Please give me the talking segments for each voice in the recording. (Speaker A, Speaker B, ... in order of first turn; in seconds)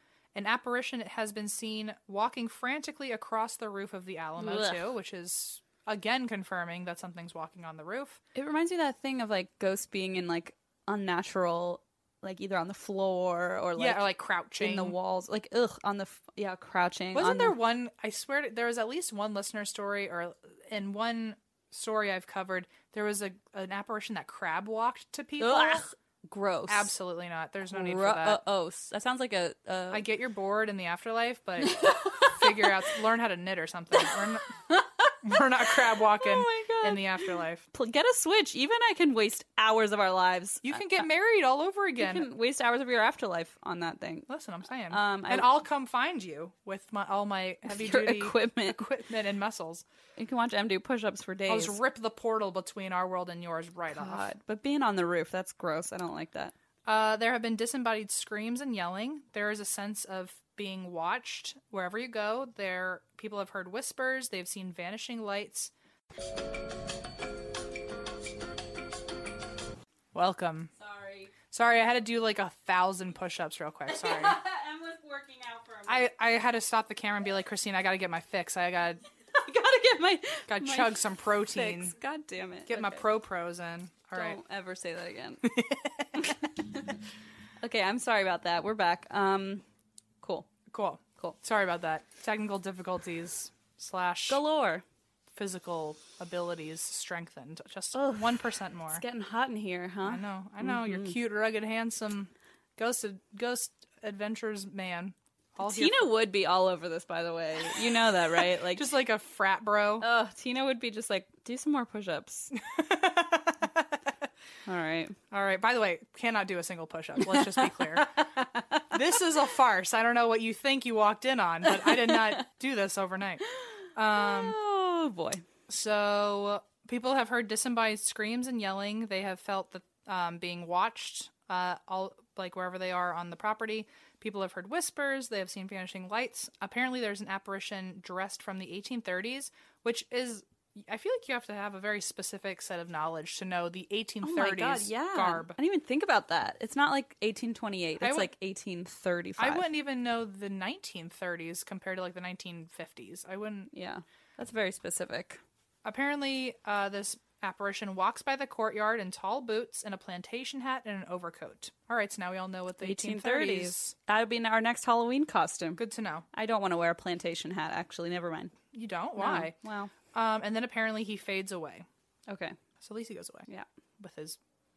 Speaker A: 0.3-8.2, 13.8-15.0, 17.1-25.9, 26.7-28.4, 29.9-34.5, 35.2-37.7, 40.6-42.3, 44.3-49.8, 51.5-54.2, 56.9-65.7, 70.1-70.7, 71.5-74.4, 75.9-79.0, 80.5-82.0, 82.7-84.4, 85.4-86.3, 90.7-94.4, 95.3-99.0, 100.0-106.1, 108.7-110.1, 112.6-114.0, 115.3-118.1, 118.9-123.4, 124.0-124.6, 125.7-145.6, 148.0-148.3, 149.4-153.7, 155.8-163.9, 165.8-166.2, 168.7-169.6, 170.1-171.9, 172.8-173.5, 174.0-174.4
Speaker B: 4.4-4.9, 8.3-17.6, 25.4-26.9, 27.7-30.1, 31.6-32.7, 34.7-35.1, 36.0-41.0, 42.0-44.3, 44.9-45.5, 47.7-48.9, 50.2-51.8, 53.9-56.5, 70.8-71.3, 73.9-76.1, 79.3-83.0, 84.1-85.5, 86.2-87.0, 87.6-89.6, 90.2-90.5, 94.3-94.8, 97.9-101.2, 105.6-108.9, 110.0-112.5, 114.7-115.2, 117.3-118.9, 123.6-125.5, 144.2-149.7, 153.7-155.4, 162.8-165.8, 166.3-168.5, 169.2-169.9, 172.3-172.6